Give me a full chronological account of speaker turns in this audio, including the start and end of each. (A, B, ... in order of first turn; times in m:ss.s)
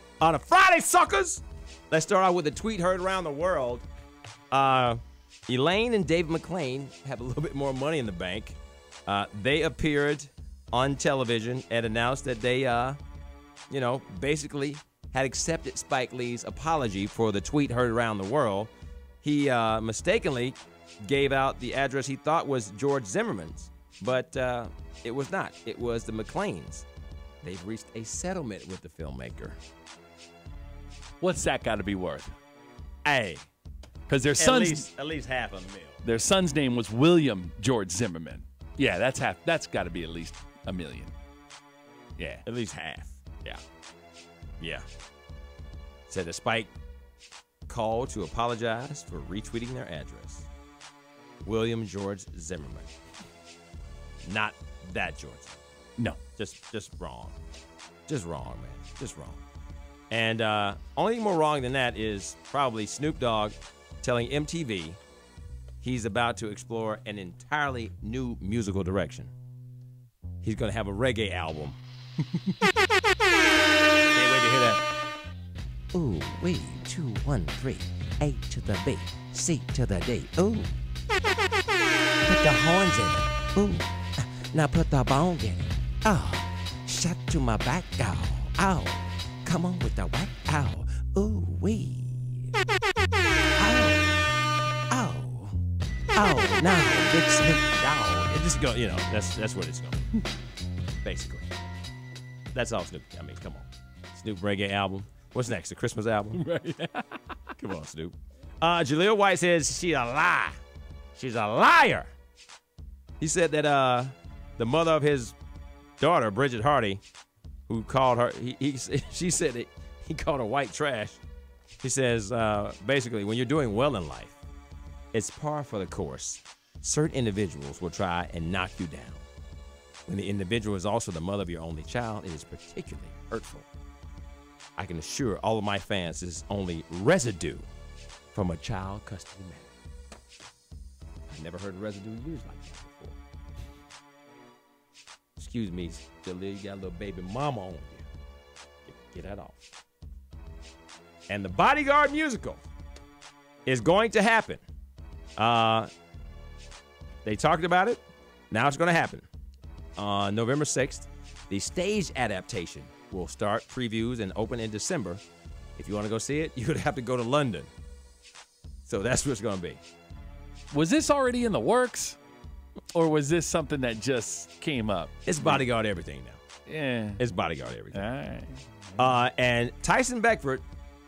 0:00.2-0:03.8 A
0:04.5-0:13.0 A
0:13.7-0:18.7 A
0:19.2-0:26.8 A
0:27.4-0:29.6 A
0:31.2-0:32.3 B
0:33.0-0:33.5 A
0:34.1-0:34.9 B
0:34.4-0:36.0 A
0:36.0-0:41.1 B
0:42.2-0:42.4 B
0:42.4-0:43.2 A
0:44.6-0:44.8 A
0:46.1-0:46.7 A
0:47.7-0:50.5 A
0:51.4-0:52.9 A
0:54.2-0:55.6 A
0:56.4-0:57.4 A
0:58.1-0:59.4 A
1:00.1-1:05.0 A
1:05.8-1:09.3 A
1:10.4-1:11.8 A
1:14.1-1:14.8 A
1:15.9-1:20.7 A
1:22.2-1:32.5 A
1:33.6-1:34.2 A
1:34.9-1:35.6 A
1:36.1-1:40.1 A
1:41.0-1:41.5 A
1:42.5-1:46.4 A
1:46.4-1:47.0 B
1:47.6-1:50.6 A
1:51.1-1:52.1 A
1:53.2-1:55.4 A
1:56.0-1:57.0 A
1:57.7-2:01.2 A
2:01.8-2:04.4 A
2:05.1-2:09.2 A
2:10.1-2:13.7 A
2:14.8-2:17.7 A
2:18.3-2:19.7 A
2:21.3-2:23.2 A
2:25.4-2:28.0 A
2:28.8-2:29.6 A
2:31.3-2:32.6 A
2:33.6-2:34.6 A
2:35.4-2:35.9 A
2:37.2-2:39.3 A
2:40.0-2:45.2 A
2:45.8-2:47.7 A
2:48.8-2:49.8 A
2:50.7-2:52.2 B
2:52.9-2:55.6 B
2:55.2-2:56.4 A
2:56.7-2:57.2 B
2:57.2-2:58.0 A
2:57.9-2:59.1 B
2:59.0-3:00.6 A